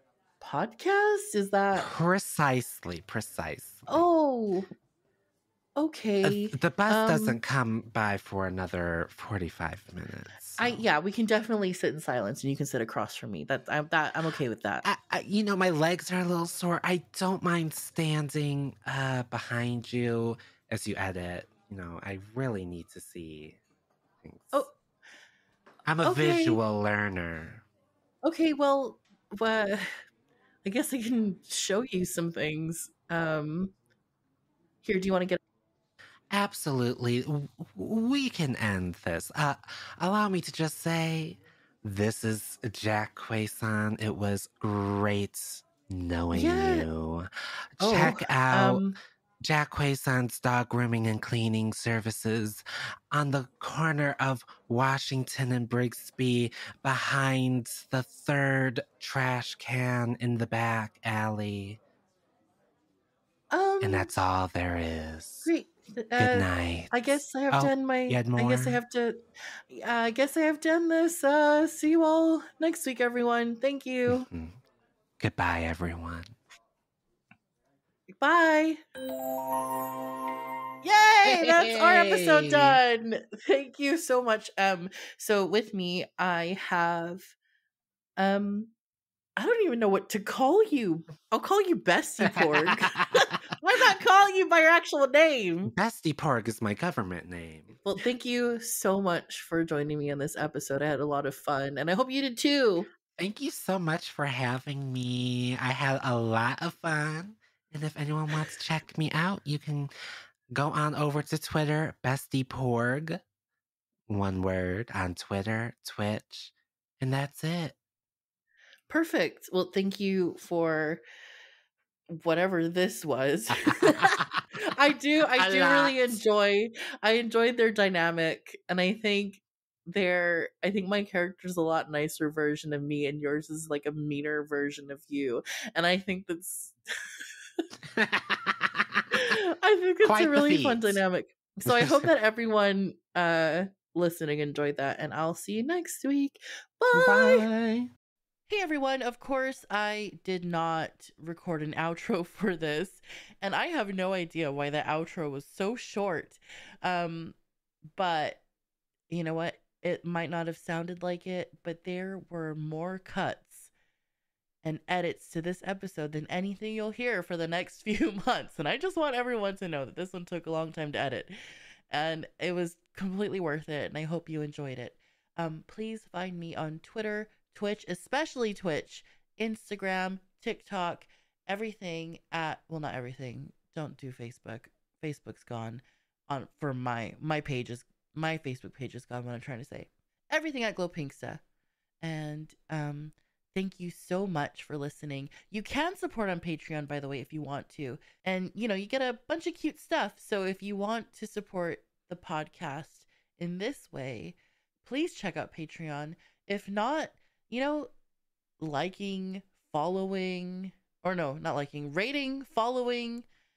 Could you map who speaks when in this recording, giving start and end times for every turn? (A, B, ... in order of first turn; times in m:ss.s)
0:00.4-0:01.9 A
0:01.7-0:04.0 B
0:03.9-0:04.7 A
0:05.8-0:07.4 A
0:06.2-0:10.8 B
0:10.6-0:14.8 A
0:14.8-0:23.6 B
0:24.2-0:24.7 B
0:25.8-0:27.6 B
0:26.0-0:26.6 A
0:28.2-0:29.9 A
0:30.6-0:33.7 A
0:34.8-0:35.4 A
0:36.3-0:48.8 B
0:46.3-0:46.9 A
0:47.8-0:49.0 A
0:49.4-1:01.8 B
1:03.5-1:04.1 A
1:03.8-1:05.5 B
1:05.4-1:09.2 A
1:06.2-1:08.8 B
1:09.7-1:14.3 A
1:14.1-1:14.6 B
1:15.2-1:16.3 B
1:18.2-1:18.8 A
1:20.8-1:27.3 A
1:21.2-1:22.8 B
1:28.2-1:28.7 A
1:29.4-1:35.7 A
1:32.2-1:33.3 B
1:35.7-1:37.8 B
1:37.8-1:42.9 A
1:43.1-1:49.9 B
1:50.5-1:53.2 B
1:54.1-1:57.8 B
1:58.9-2:01.0 A
2:02.1-2:16.8 A
2:04.0-2:04.4 B
2:05.4-2:06.2 B
2:17.9-2:19.1 B
2:19.1-2:27.5 A
2:20.0-2:21.0 B
2:21.6-2:22.1 B
2:26.9-2:27.9 B
2:28.5-2:37.4 A
2:38.0-2:38.4 A
2:39.1-2:43.7 A
2:44.6-2:51.3 A
2:51.9-3:11.4 A
3:12.0-3:27.9 A
3:28.6-3:33.2 A